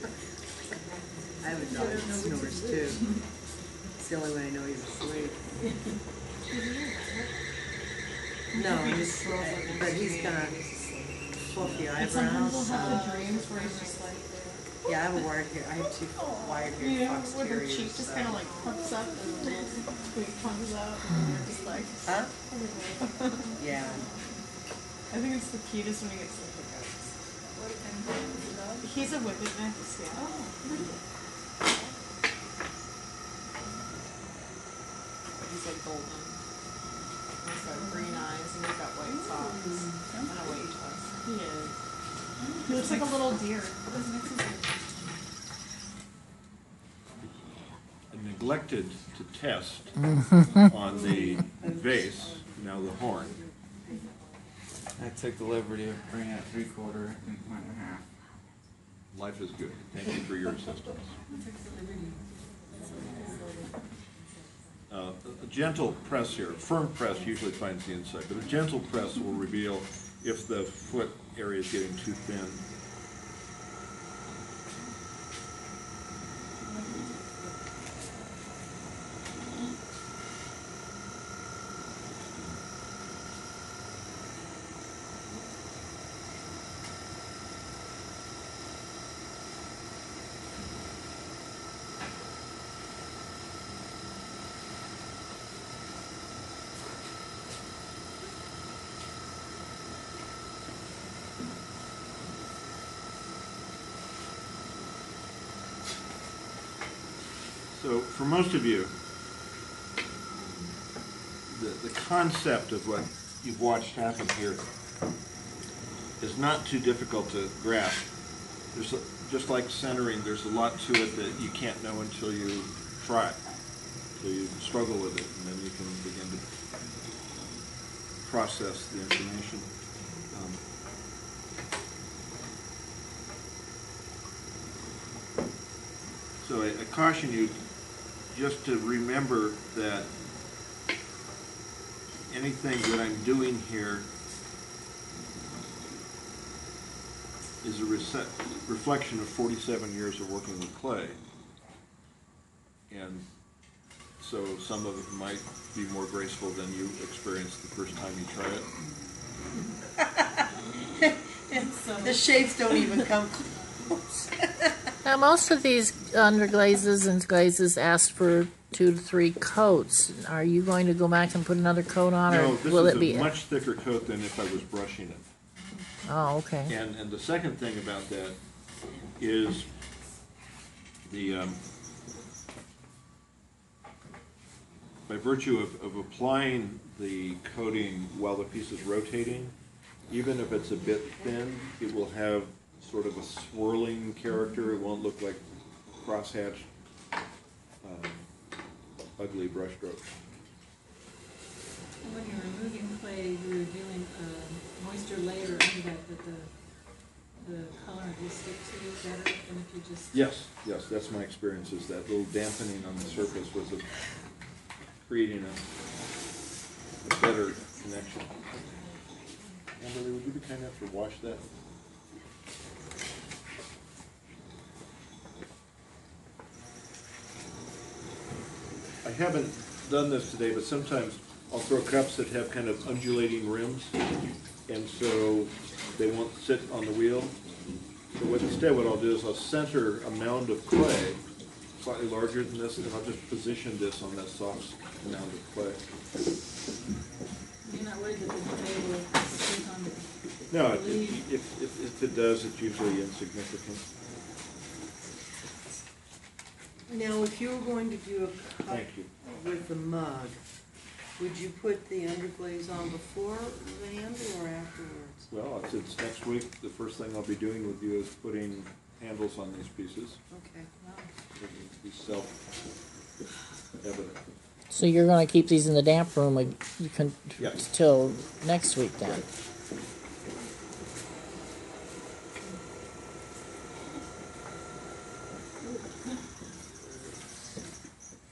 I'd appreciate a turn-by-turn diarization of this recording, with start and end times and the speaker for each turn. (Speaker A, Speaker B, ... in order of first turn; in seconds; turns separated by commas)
Speaker A: 1.4-3.1, Speaker B: 1.6-3.2, Speaker A: 4.0-5.5, Speaker C: 6.5-7.4, Speaker A: 8.5-13.4, Speaker C: 8.6-10.6, Speaker C: 11.8-14.7, Speaker B: 12.0-13.1, Speaker A: 14.9-18.8, Speaker C: 16.8-23.7, Speaker D: 21.1-21.4, Speaker A: 22.0-22.3, Speaker A: 23.6-24.1, Speaker C: 25.1-27.1, Speaker B: 27.7-28.9, Speaker C: 28.8-31.0, Speaker B: 30.1-30.9, Speaker C: 35.4-36.4, Speaker C: 37.4-41.7, Speaker B: 37.8-38.1, Speaker B: 39.1-40.8, Speaker B: 42.4-43.1, Speaker C: 42.6-43.9, Speaker B: 43.8-45.2, Speaker E: 48.1-50.0, Speaker D: 50.1-50.7, Speaker E: 50.5-53.4, Speaker A: 51.5-51.8, Speaker F: 55.0-58.0, Speaker E: 59.1-61.2, Speaker B: 61.3-62.2, Speaker B: 62.8-63.6, Speaker E: 64.9-72.6, Speaker B: 76.8-77.5, Speaker E: 82.0-82.6, Speaker E: 107.7-109.0, Speaker E: 111.5-114.7, Speaker E: 116.2-118.1, Speaker E: 118.7-123.4, Speaker E: 124.2-126.5, Speaker E: 128.2-129.7, Speaker E: 130.3-130.6, Speaker E: 136.4-137.6, Speaker E: 138.3-140.1, Speaker E: 142.3-144.1, Speaker E: 147.6-151.2, Speaker E: 152.9-153.2, Speaker E: 154.2-158.7, Speaker A: 160.0-160.4, Speaker A: 161.0-164.8, Speaker B: 161.5-162.2, Speaker D: 165.0-173.3, Speaker E: 172.3-175.3, Speaker D: 176.1-176.7, Speaker E: 176.7-178.4, Speaker E: 179.2-179.7, Speaker E: 181.0-181.6, Speaker E: 185.1-189.6, Speaker E: 190.1-195.4, Speaker E: 196.0-196.7, Speaker E: 197.8-198.3, Speaker E: 199.2-200.2, Speaker B: 202.0-206.5, Speaker B: 207.4-210.1, Speaker E: 210.1-213.9, Speaker E: 215.0-215.6, Speaker E: 217.0-218.4, Speaker E: 219.8-221.4, Speaker E: 229.0-234.0, Speaker E: 234.7-237.4, Speaker E: 238.2-241.2, Speaker E: 241.8-245.9, Speaker B: 247.7-251.2, Speaker E: 250.5-253.8, Speaker A: 256.9-260.4, Speaker E: 258.7-259.1, Speaker A: 261.2-265.3, Speaker E: 265.3-270.2, Speaker A: 270.3-270.7, Speaker B: 270.8-271.1, Speaker E: 271.4-272.4, Speaker E: 273.8-274.2, Speaker D: 274.7-279.2, Speaker E: 277.4-277.6, Speaker E: 286.8-287.5